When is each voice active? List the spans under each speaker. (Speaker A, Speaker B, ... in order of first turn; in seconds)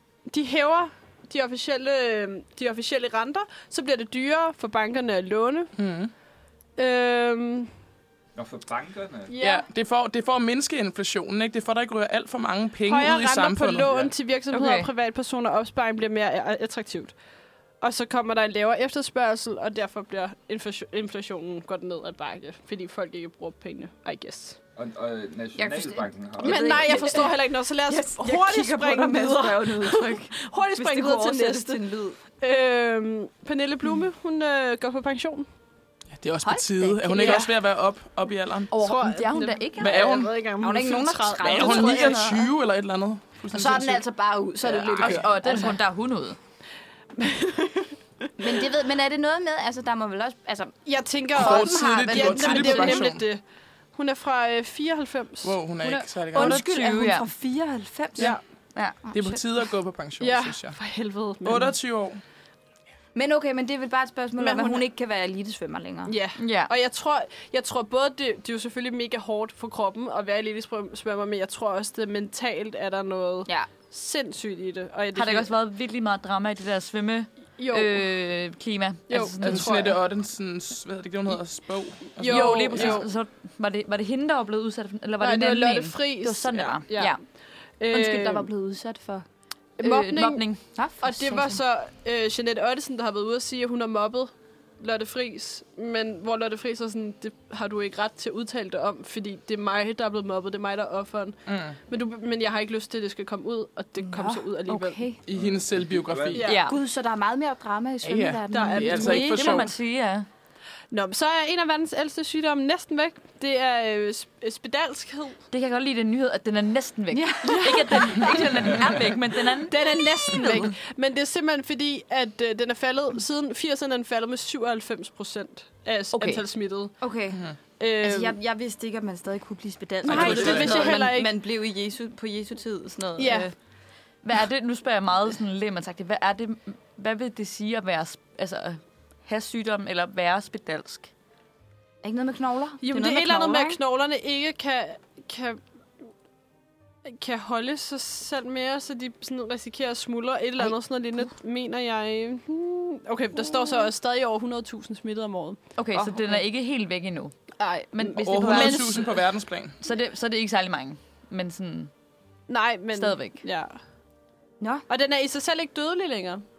Speaker A: 0.3-5.7, 6.8-7.7, 9.3-9.7, 12.8-17.1, 17.8-24.6, 26.4-31.8, 32.4-35.5, 37.2-37.5, 38.7-42.4, 47.2-47.9, 50.9-53.4, 54.0-55.6, 60.2-61.8, 64.4-64.8, 66.1-75.5, 77.6-78.1, 79.1-80.0, 82.2-83.1, 85.2-88.5, 89.8-90.5, 91.0-105.0, 106.4-106.7, 108.5-109.5, 110.9-115.4, 117.4-118.7, 119.7-127.0, 127.8-128.4, 130.1-131.3, 133.2-133.5, 142.8-145.6, 147.1-156.4, 157.6-159.1, 162.5-163.8, 164.9-166.4
Speaker B: 5.8-6.1, 9.4-14.0, 36.1-38.7, 39.8-40.3, 41.4-44.0, 44.6-45.2, 51.4-53.2, 55.4-56.6, 59.0-60.8, 61.4-62.2, 79.4-83.0, 101.5-101.8, 105.2-106.5, 108.0-109.7, 130.1-131.0, 158.2-159.8
Speaker C: 8.3-9.3, 24.8-27.0, 105.3-106.4
Speaker D: 14.5-14.9, 38.7-40.1, 45.0-46.4, 55.8-57.3, 66.4-66.7, 75.2-80.0, 82.2-87.2, 89.8-90.6, 106.4-106.8, 109.0-110.3, 115.5-120.7, 126.1-126.4, 130.2-131.1, 134.2-141.1, 155.8-157.3, 157.9-159.2, 159.8-161.9, 162.9-163.4
Speaker E: 25.6-32.2, 36.4-37.5, 40.6-42.5, 43.5-45.8, 48.4-50.8, 51.3-53.2, 56.3-58.4, 59.1-59.4, 63.1-66.1, 87.9-89.3, 90.8-91.6, 104.0-105.2, 106.6-109.6, 117.1-118.4, 127.0-133.5, 142.0-143.8, 164.6-164.9